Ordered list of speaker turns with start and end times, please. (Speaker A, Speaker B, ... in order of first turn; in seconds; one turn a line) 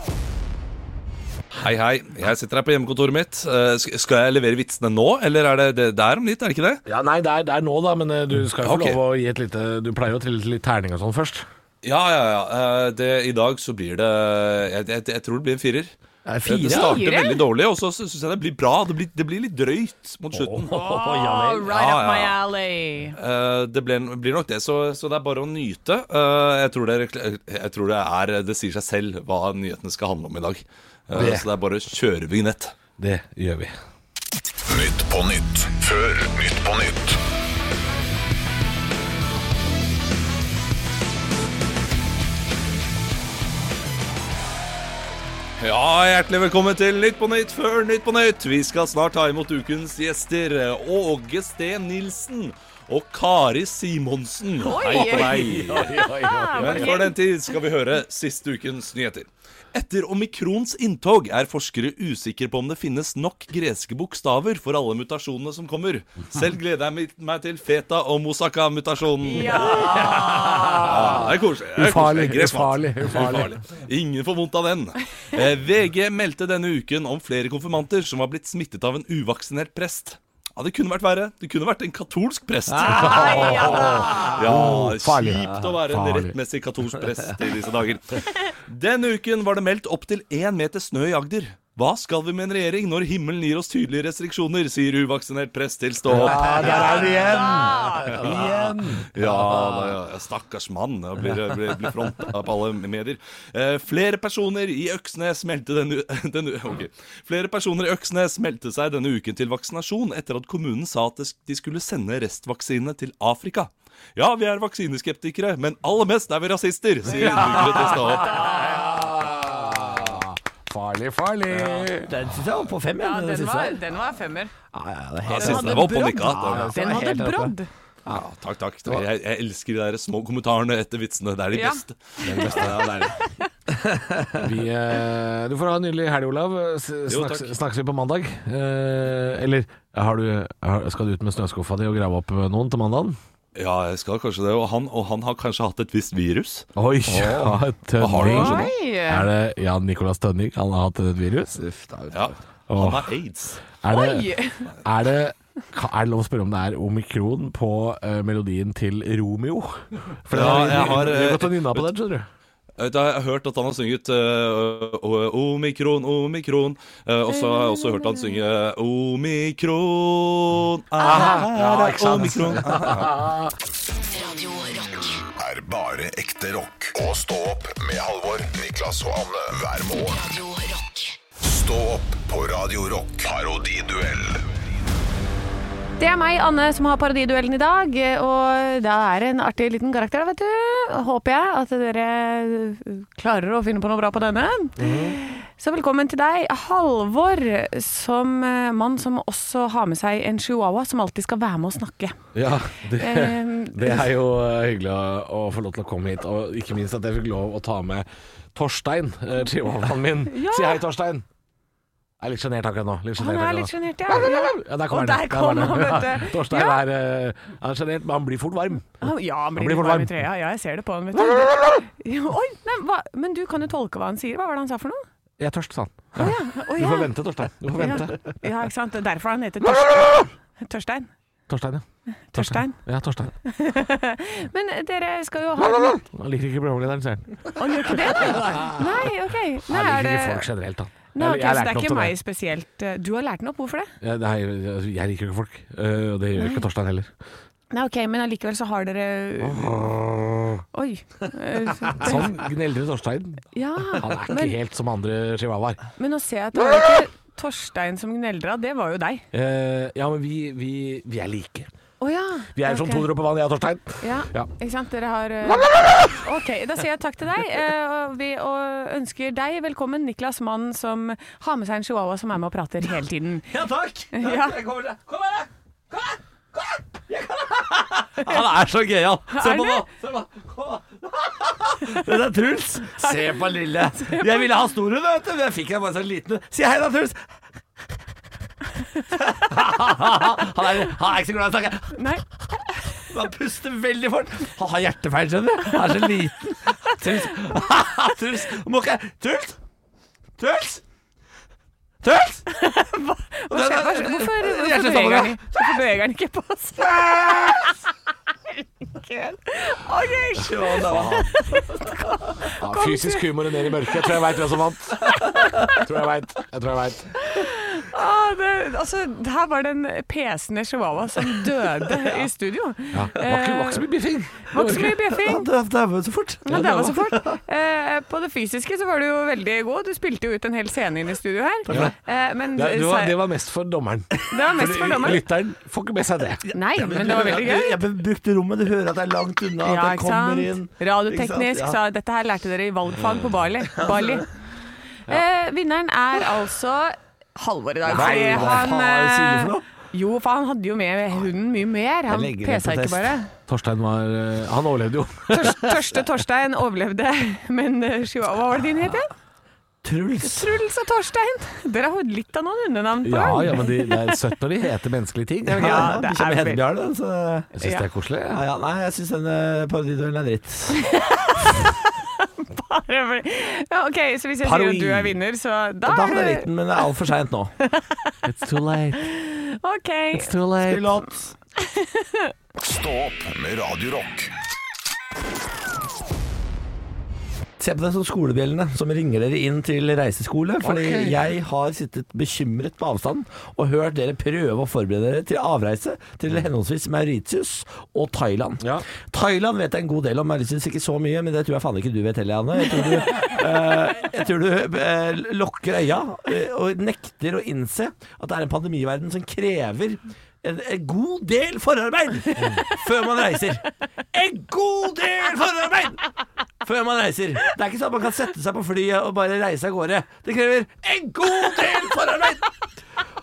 Speaker A: 1.6-6.8
Speaker B: 6.9-11.5
Speaker A: 8.6-9.0
Speaker A: 11.8-15.9
Speaker C: 16.2-17.1
Speaker A: 16.4-20.8
Speaker D: 16.7-17.4
Speaker C: 20.3-21.7
Speaker D: 20.7-23.2
Speaker A: 21.7-22.4
Speaker A: 23.2-32.8
Speaker B: 31.1-31.5
Speaker B: 33.0-33.8
Speaker E: 34.7-37.2
Speaker A: 45.6-55.9
Speaker D: 54.6-57.1
Speaker B: 55.3-56.9
Speaker C: 55.4-56.8
Speaker A: 56.6-70.1
Speaker D: 69.2-70.6
Speaker C: 69.6-71.1
Speaker B: 69.8-73.6
Speaker A: 70.8-97.6
Speaker C: 82.7-84.7
Speaker D: 82.9-84.4
Speaker B: 83.2-86.3
Speaker C: 85.3-85.8
Speaker C: 96.1-98.4
Speaker B: 96.1-100.0
Speaker D: 97.2-98.2
Speaker A: 98.3-118.6
Speaker C: 117.2-118.4
Speaker B: 117.3-122.1
Speaker D: 117.9-118.8
Speaker C: 122.0-123.8
Speaker D: 123.0-124.5
Speaker C: 124.7-127.5
Speaker A: 125.3-126.7
Speaker D: 125.3-127.7
Speaker A: 128.1-133.1
Speaker D: 131.5-132.7
Speaker B: 132.2-133.2
Speaker C: 133.7-134.4
Speaker B: 134.4-143.2
Speaker A: 137.1-137.5
Speaker A: 143.6-146.7
Speaker B: 146.8-151.6
Speaker C: 147.1-147.6
Speaker A: 148.0-148.7
Speaker D: 148.2-149.3
Speaker C: 151.6-152.3
Speaker A: 152.1-153.6
Speaker B: 152.7-153.1
Speaker B: 153.7-162.3
Speaker D: 153.9-154.8
Speaker A: 160.3-161.9
Speaker A: 162.8-173.2
Speaker D: 167.3-168.4
Speaker B: 171.0-173.6
Speaker F: 174.1-175.2
Speaker E: 175.4-180.2
Speaker F: 180.0-181.2
Speaker E: 181.4-184.4
Speaker D: 186.0-202.2
Speaker B: 194.8-195.2
Speaker B: 202.3-211.2
Speaker D: 203.0-204.1
Speaker D: 210.3-210.8
Speaker B: 212.2-220.2
Speaker D: 213.2-216.8
Speaker D: 219.0-225.0
Speaker B: 221.2-221.8
Speaker B: 225.4-228.4
Speaker D: 226.2-227.1
Speaker D: 227.8-231.1
Speaker B: 231.5-233.3
Speaker D: 232.3-232.8
Speaker D: 233.4-236.0
Speaker B: 236.0-238.9
Speaker D: 237.6-240.5
Speaker B: 239.7-242.1
Speaker D: 241.1-243.9
Speaker B: 244.0-247.1
Speaker D: 246.4-246.6
Speaker D: 247.7-249.8
Speaker B: 249.4-250.6
Speaker D: 250.7-252.3
Speaker B: 251.9-255.8
Speaker D: 253.5-254.6
Speaker D: 256.0-259.3
Speaker B: 259.3-261.7
Speaker D: 262.0-263.1
Speaker B: 262.6-264.5
Speaker D: 264.0-273.5
Speaker C: 273.5-287.3
Speaker D: 274.1-274.6
Speaker D: 279.3-279.9
Speaker D: 283.0-284.5
Speaker C: 289.1-292.2
Speaker D: 291.9-292.9
Speaker C: 293.0-299.6
Speaker C: 300.4-300.8
Speaker C: 302.0-302.5
Speaker D: 302.5-307.7
Speaker C: 303.5-305.8
Speaker C: 306.8-307.8
Speaker D: 308.5-313.3
Speaker C: 310.4-311.9
Speaker B: 310.8-311.3
Speaker B: 312.6-317.1
Speaker D: 315.0-315.8
Speaker D: 317.2-323.9
Speaker B: 322.9-325.0
Speaker D: 324.4-325.5
Speaker C: 324.6-327.4
Speaker D: 326.4-333.2
Speaker B: 326.5-326.9
Speaker C: 331.7-331.9
Speaker B: 331.7-332.0
Speaker B: 332.6-336.4
Speaker D: 334.3-335.2
Speaker C: 336.5-341.8
Speaker D: 336.5-337.8
Speaker D: 339.6-344.3
Speaker B: 343.0-343.3
Speaker C: 343.7-344.2
Speaker D: 345.1-353.3
Speaker C: 347.9-349.6
Speaker B: 347.9-348.6
Speaker C: 352.1-353.1
Speaker B: 353.5-355.7
Speaker D: 355.3-359.1
Speaker C: 359.8-360.5
Speaker D: 360.2-364.2
Speaker B: 363.0-365.9
Speaker D: 365.5-366.6
Speaker C: 365.6-367.6
Speaker B: 367.6-368.4
Speaker D: 367.6-367.9
Speaker C: 368.3-370.8
Speaker D: 370.8-376.8
Speaker B: 374.4-375.1
Speaker C: 375.9-377.5
Speaker D: 377.6-378.2
Speaker B: 378.2-379.1
Speaker D: 379.0-380.4
Speaker B: 380.1-381.0
Speaker C: 380.6-381.3
Speaker D: 381.6-382.3
Speaker E: 382.6-384.3
Speaker C: 387.6-416.0
Speaker B: 390.6-391.2
Speaker C: 416.6-422.5